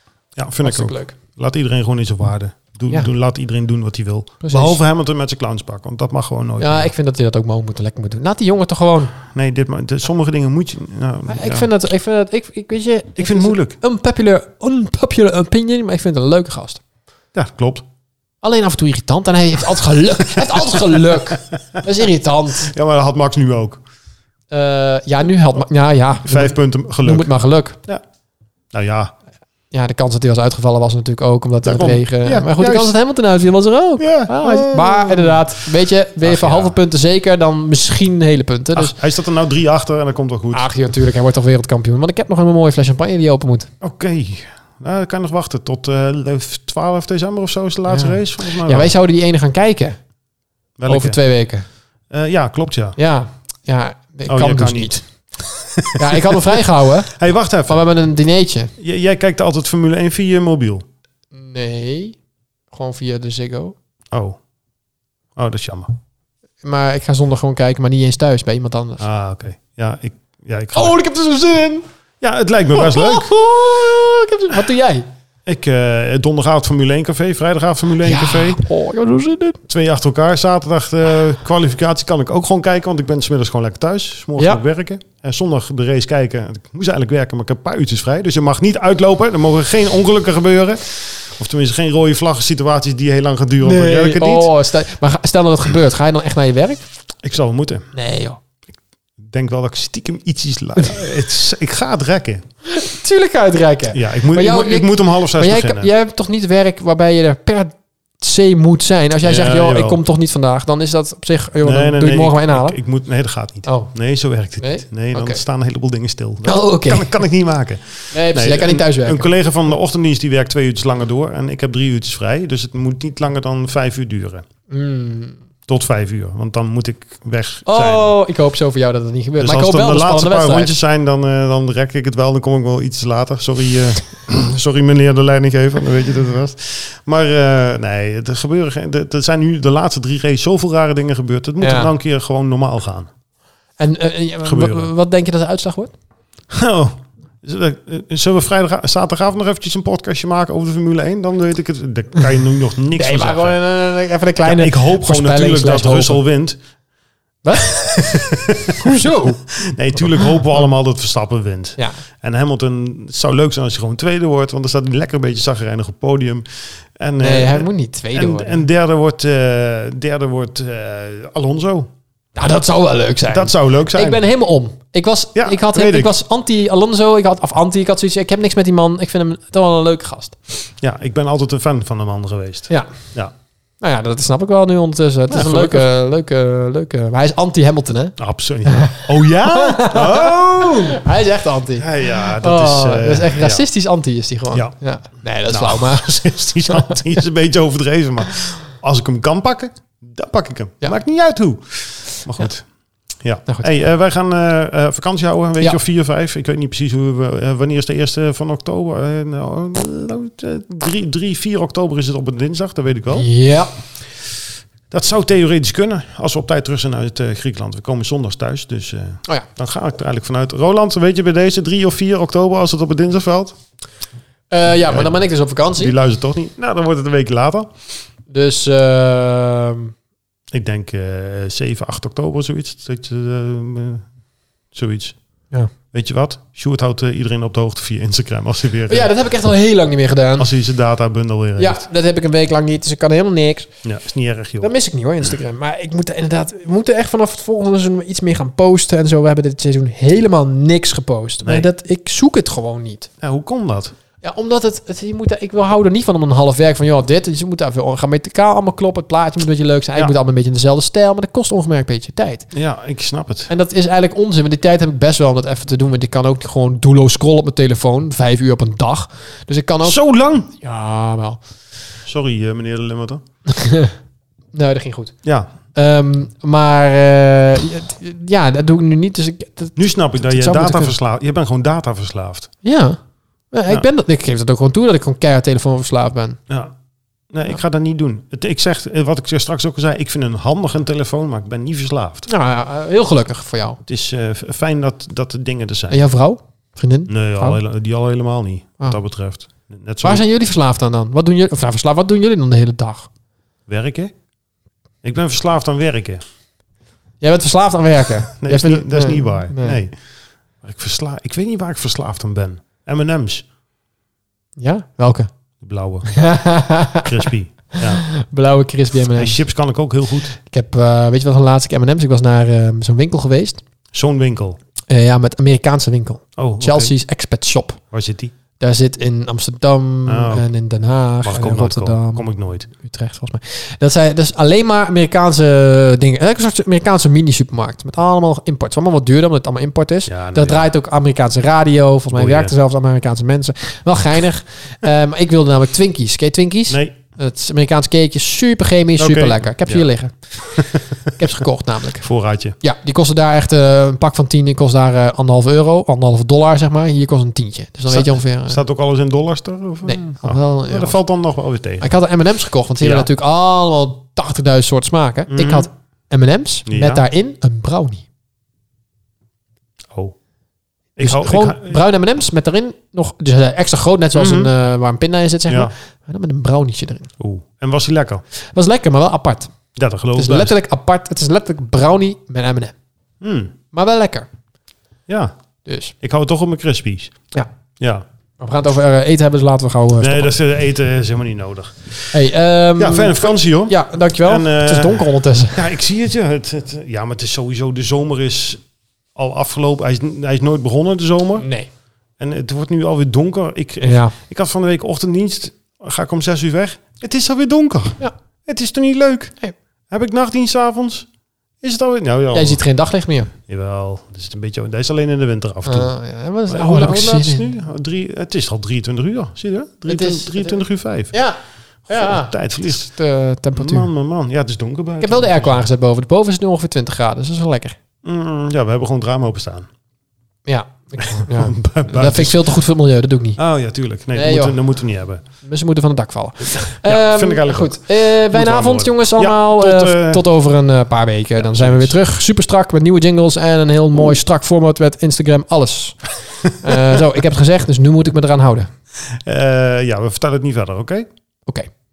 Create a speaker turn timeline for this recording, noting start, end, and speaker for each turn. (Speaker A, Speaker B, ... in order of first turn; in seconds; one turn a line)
Speaker A: 0.3-6.9
Speaker B: 0.6-1.1
Speaker B: 4.4-4.8
Speaker B: 6.6-9.1
Speaker A: 9.3-11.7
Speaker B: 11.3-16.8
Speaker A: 13.2-13.8
Speaker A: 17.3-17.8
Speaker B: 18.4-22.7
Speaker A: 20.3-21.8
Speaker A: 22.6-23.8
Speaker B: 24.5-27.8
Speaker A: 26.2-27.3
Speaker A: 28.7-29.1
Speaker B: 29.7-39.0
Speaker A: 31.6-32.9
Speaker A: 34.0-35.5
Speaker A: 36.2-36.8
Speaker A: 38.7-40.7
Speaker B: 40.5-43.7
Speaker A: 43.8-48.9
Speaker B: 47.9-50.0
Speaker A: 50.8-51.2
Speaker B: 50.9-51.6
Speaker A: 52.1-53.0
Speaker B: 53.0-55.0
Speaker A: 54.3-57.8
Speaker B: 56.0-57.1
Speaker B: 57.7-58.7
Speaker A: 58.8-60.8
Speaker B: 61.3-62.1
Speaker B: 62.7-63.7
Speaker A: 64.1-64.4
Speaker A: 65.3-65.9
Speaker B: 66.6-69.0
Speaker A: 69.0-71.0
Speaker B: 70.7-71.8
Speaker A: 72.2-73.4
Speaker B: 72.7-75.1
Speaker A: 75.5-78.6
Speaker B: 78.0-79.6
Speaker A: 79.7-94.5
Speaker B: 93.6-96.8
Speaker A: 97.2-97.9
Speaker B: 97.9-98.4
Speaker A: 99.2-102.4
Speaker B: 102.7-112.8
Speaker A: 103.9-105.9
Speaker A: 109.2-110.0
Speaker A: 111.6-124.4
Speaker B: 113.6-113.9
Speaker B: 114.6-115.4
Speaker B: 116.4-117.2
Speaker B: 118.1-119.3
Speaker B: 124.7-125.4
Speaker A: 125.7-128.1
Speaker B: 127.7-130.7
Speaker A: 129.4-143.1
Speaker B: 141.6-141.9
Speaker B: 143.8-145.9
Speaker A: 144.4-144.9
Speaker A: 146.5-153.6
Speaker B: 152.9-156.2
Speaker A: 154.4-156.6
Speaker B: 157.4-157.8
Speaker A: 157.5-166.4
Speaker B: 158.7-159.4
Speaker A: 166.9-171.9
Speaker B: 167.2-168.6
Speaker B: 172.3-180.4
Speaker A: 173.3-174.2
Speaker A: 175.3-176.2
Speaker A: 180.8-183.3
Speaker B: 183.8-197.0
Speaker A: 185.3-185.9
Speaker A: 188.2-191.0
Speaker A: 191.8-193.6
Speaker A: 195.5-202.7
Speaker A: 203.2-213.3
Speaker B: 213.1-213.7
Speaker A: 214.9-223.6
Speaker B: 224.5-225.9
Speaker A: 224.9-225.2
Speaker A: 225.7-227.7
Speaker B: 228.3-229.9
Speaker A: 230.5-234.0
Speaker A: 234.7-235.2
Speaker A: 235.9-239.1
Speaker B: 238.9-240.5
Speaker A: 240.4-241.9
Speaker B: 241.6-243.7
Speaker A: 243.8-244.7
Speaker B: 244.6-253.1
Speaker A: 253.2-253.9
Speaker B: 254.2-262.5
Speaker A: 262.5-263.5
Speaker B: 263.5-270.0
Speaker A: 269.8-270.5
Speaker B: 270.6-271.4
Speaker A: 272.0-273.2
Speaker B: 273.5-273.9
Speaker B: 274.5-275.1
Speaker A: 275.2-275.5
Speaker B: 275.7-280.9
Speaker A: 279.8-282.5
Speaker B: 282.6-283.0
Speaker B: 283.5-286.4
Speaker A: 286.5-286.7
Speaker A: 287.3-292.3
Speaker B: 292.3-293.8
Speaker A: 293.9-296.0
Speaker B: 295.9-297.6
Speaker A: 297.1-300.2
Speaker B: 300.0-303.1
Speaker A: 303.7-304.1
Speaker A: 305.0-306.2
Speaker B: 307.2-309.8
Speaker A: 308.4-309.9
Speaker A: 310.6-313.4
Speaker B: 314.6-315.3
Speaker A: 315.6-316.2
Speaker B: 316.1-319.4
Speaker A: 317.0-318.0
Speaker A: 319.1-320.4
Speaker B: 320.4-323.6
Speaker A: 323.9-324.6
Speaker B: 324.9-327.8
Speaker A: 326.4-326.9
Speaker A: 327.9-328.3
Speaker B: 328.6-352.1
Speaker A: 330.1-330.4
Speaker A: 331.2-332.7
Speaker A: 340.1-340.6
Speaker A: 342.1-342.5
Speaker A: 349.0-349.9
Speaker A: 350.4-351.3
Speaker A: 352.0-352.6
Speaker B: 352.6-358.6
Speaker A: 357.9-361.9
Speaker B: 359.8-361.0
Speaker B: 361.8-368.0
Speaker A: 362.8-363.1
Speaker A: 365.3-365.7
Speaker A: 366.7-367.0
Speaker A: 370.9-371.8
Speaker B: 371.0-377.1
Speaker A: 374.1-374.5
Speaker A: 377.2-378.2
Speaker B: 378.5-379.5
Speaker A: 379.8-380.6
Speaker B: 380.1-382.7
Speaker A: 383.2-383.5
Speaker B: 383.7-384.3
Speaker A: 385.1-385.3
Speaker B: 385.6-385.9
Speaker A: 386.0-387.1
Speaker A: 387.8-388.0
Speaker B: 388.4-390.3
Speaker A: 390.0-392.2
Speaker B: 392.1-395.7
Speaker A: 392.8-398.6
Speaker A: 399.1-401.5
Speaker B: 401.4-401.7
Speaker A: 402.2-409.3
Speaker B: 403.8-404.1
Speaker A: 409.9-411.1
Speaker A: 411.6-412.6
Speaker B: 412.3-413.3
Speaker A: 413.5-415.9
Speaker B: 415.6-417.5
Speaker A: 416.5-421.1
Speaker B: 419.9-420.6
Speaker B: 421.1-423.9
Speaker A: 421.9-422.9
Speaker A: 423.5-425.6
Speaker B: 425.0-427.8
Speaker A: 428.0-429.7
Speaker B: 430.5-433.4
Speaker A: 431.0-432.5
Speaker A: 433.4-435.2
Speaker B: 434.1-434.6
Speaker B: 435.4-448.7
Speaker A: 436.6-440.2
Speaker A: 441.4-442.0
Speaker A: 449.1-451.1